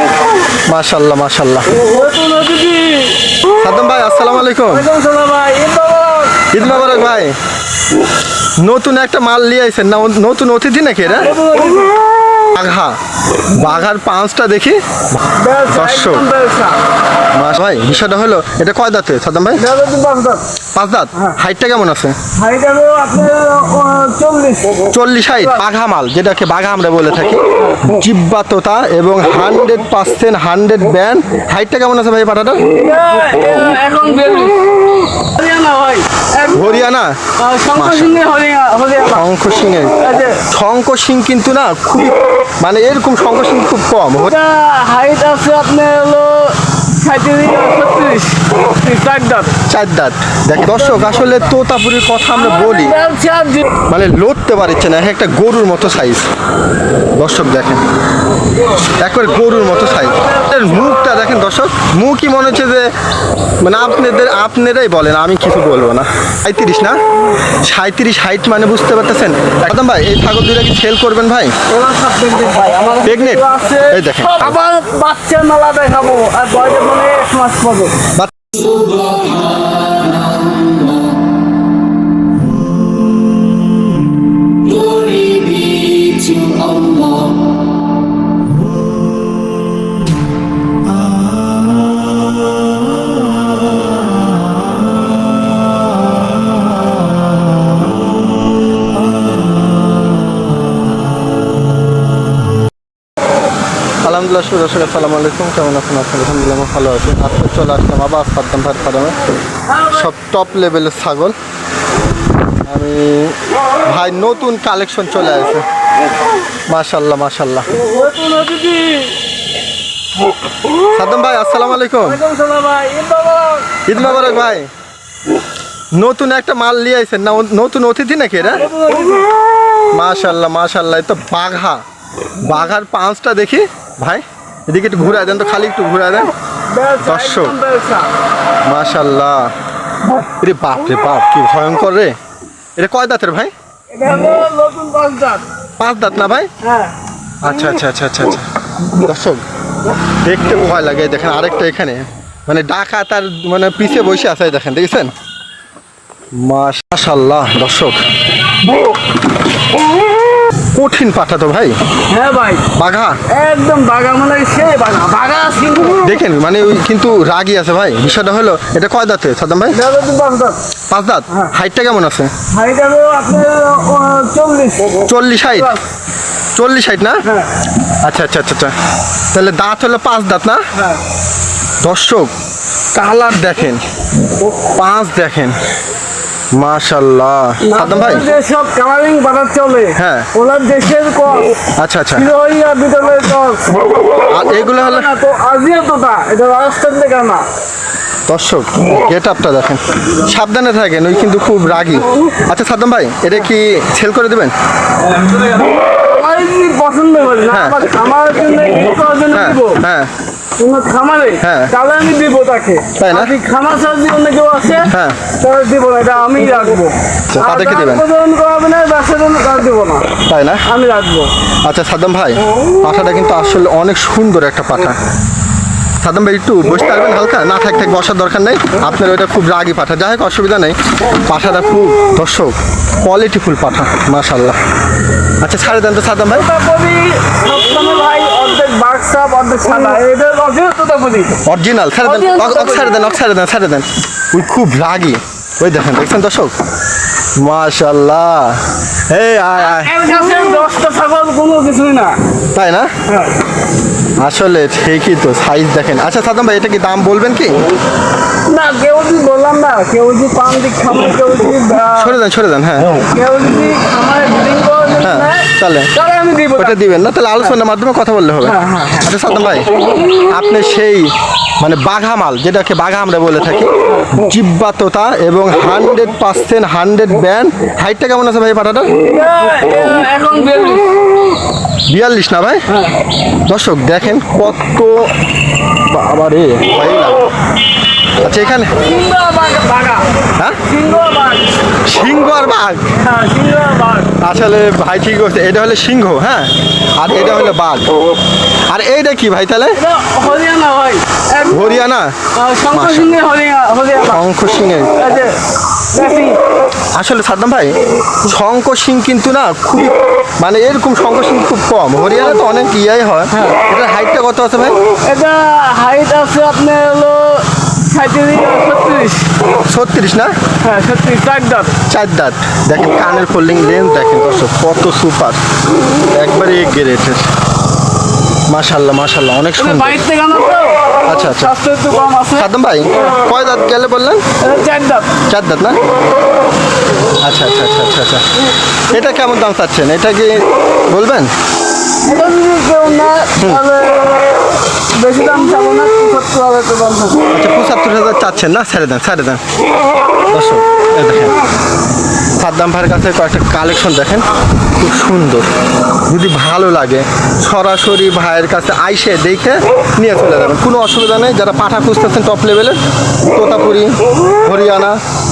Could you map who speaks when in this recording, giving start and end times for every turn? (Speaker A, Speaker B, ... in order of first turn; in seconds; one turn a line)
Speaker A: 0.7-1.7
Speaker B: 1.8-3.2
Speaker A: 3.6-4.9
Speaker B: 4.6-6.7
Speaker A: 6.5-7.4
Speaker A: 8.6-11.3
Speaker B: 11.0-11.9
Speaker A: 12.5-13.0
Speaker A: 13.5-16.3
Speaker B: 15.4-16.8
Speaker A: 17.3-19.6
Speaker B: 19.6-20.4
Speaker A: 20.8-22.2
Speaker B: 22.4-25.6
Speaker A: 24.9-32.6
Speaker B: 27.6-27.8
Speaker B: 32.7-36.9
Speaker A: 36.5-37.2
Speaker B: 37.4-39.3
Speaker A: 37.8-38.2
Speaker A: 39.1-40.0
Speaker B: 40.0-40.4
Speaker A: 40.5-44.3
Speaker B: 44.2-49.6
Speaker A: 49.7-53.0
Speaker B: 50.6-51.5
Speaker B: 52.3-53.8
Speaker A: 53.9-56.3
Speaker A: 57.2-57.8
Speaker A: 59.0-62.9
Speaker B: 60.1-60.6
Speaker A: 63.6-67.0
Speaker A: 67.6-71.5
Speaker B: 71.7-78.0
Speaker A: 73.0-74.6
Speaker A: 104.0-109.2
Speaker B: 109.7-110.1
Speaker A: 109.9-111.3
Speaker A: 112.7-115.6
Speaker A: 116.7-117.7
Speaker B: 117.8-119.2
Speaker A: 120.9-122.2
Speaker B: 122.0-123.8
Speaker A: 123.9-124.7
Speaker A: 125.9-128.7
Speaker B: 128.4-129.3
Speaker A: 129.9-131.8
Speaker A: 132.4-136.3
Speaker B: 136.7-138.1
Speaker A: 137.0-137.6
Speaker A: 138.7-139.5
Speaker A: 140.2-142.2
Speaker A: 142.8-143.5
Speaker B: 143.9-145.4
Speaker A: 145.8-146.5
Speaker B: 146.6-146.9
Speaker A: 147.4-149.4
Speaker A: 150.2-155.1
Speaker A: 156.3-158.0
Speaker A: 160.7-161.8
Speaker B: 162.1-162.7
Speaker A: 162.7-163.2
Speaker B: 163.3-166.1
Speaker A: 166.0-169.8
Speaker B: 169.7-170.6
Speaker A: 170.9-172.3
Speaker B: 172.5-175.8
Speaker A: 175.0-175.8
Speaker A: 176.6-177.2
Speaker B: 177.2-177.5
Speaker A: 178.0-178.7
Speaker A: 179.3-180.6
Speaker B: 180.7-181.0
Speaker A: 181.8-182.3
Speaker A: 182.9-183.8
Speaker A: 184.8-185.6
Speaker A: 186.5-188.2
Speaker B: 187.6-191.6
Speaker A: 190.0-190.3
Speaker A: 191.8-192.3
Speaker B: 192.2-193.7
Speaker A: 194.3-195.1
Speaker B: 194.4-197.4
Speaker A: 198.3-204.5
Speaker B: 205.8-209.8
Speaker A: 207.5-207.8
Speaker A: 209.3-210.1
Speaker B: 210.6-220.1
Speaker A: 211.4-211.7
Speaker A: 213.0-213.3
Speaker A: 214.9-215.2
Speaker A: 217.3-218.1
Speaker A: 220.3-220.6
Speaker B: 220.7-221.3
Speaker A: 221.7-225.0
Speaker A: 226.0-234.6
Speaker A: 235.4-236.5
Speaker B: 236.3-241.4
Speaker A: 241.5-246.5
Speaker B: 242.0-243.1
Speaker A: 247.4-249.9
Speaker B: 249.6-252.2
Speaker A: 252.6-252.9
Speaker B: 253.1-253.4
Speaker A: 254.2-257.6
Speaker B: 258.5-262.2
Speaker A: 261.9-263.0
Speaker B: 263.0-266.8
Speaker A: 265.0-265.9
Speaker A: 266.6-278.9
Speaker B: 268.4-269.1
Speaker B: 273.9-274.1
Speaker B: 279.0-280.9
Speaker A: 281.9-282.6
Speaker B: 282.7-283.0
Speaker A: 283.5-285.1
Speaker A: 285.8-287.3
Speaker A: 288.2-288.7
Speaker B: 288.6-290.1
Speaker B: 290.6-291.6
Speaker A: 291.8-292.8
Speaker B: 292.9-294.2
Speaker A: 294.2-297.9
Speaker A: 298.7-299.8
Speaker B: 299.7-301.8
Speaker A: 301.5-302.2
Speaker B: 302.4-304.2
Speaker A: 302.7-303.2
Speaker A: 304.1-305.1
Speaker B: 305.0-305.4
Speaker B: 305.9-306.4
Speaker A: 306.9-314.8
Speaker B: 313.3-313.6
Speaker B: 315.0-319.3
Speaker A: 319.7-320.3
Speaker B: 320.6-321.8
Speaker A: 321.9-325.4
Speaker A: 326.1-327.3
Speaker A: 328.5-330.0
Speaker B: 329.6-333.2
Speaker A: 331.1-331.5
Speaker A: 332.3-334.2
Speaker B: 334.4-335.2
Speaker A: 335.3-335.9
Speaker A: 337.2-338.2
Speaker A: 338.9-341.3
Speaker B: 342.0-347.3
Speaker A: 347.3-349.4
Speaker A: 350.3-351.4
Speaker A: 352.4-354.2
Speaker A: 354.8-355.5
Speaker A: 356.1-362.8
Speaker A: 363.3-365.0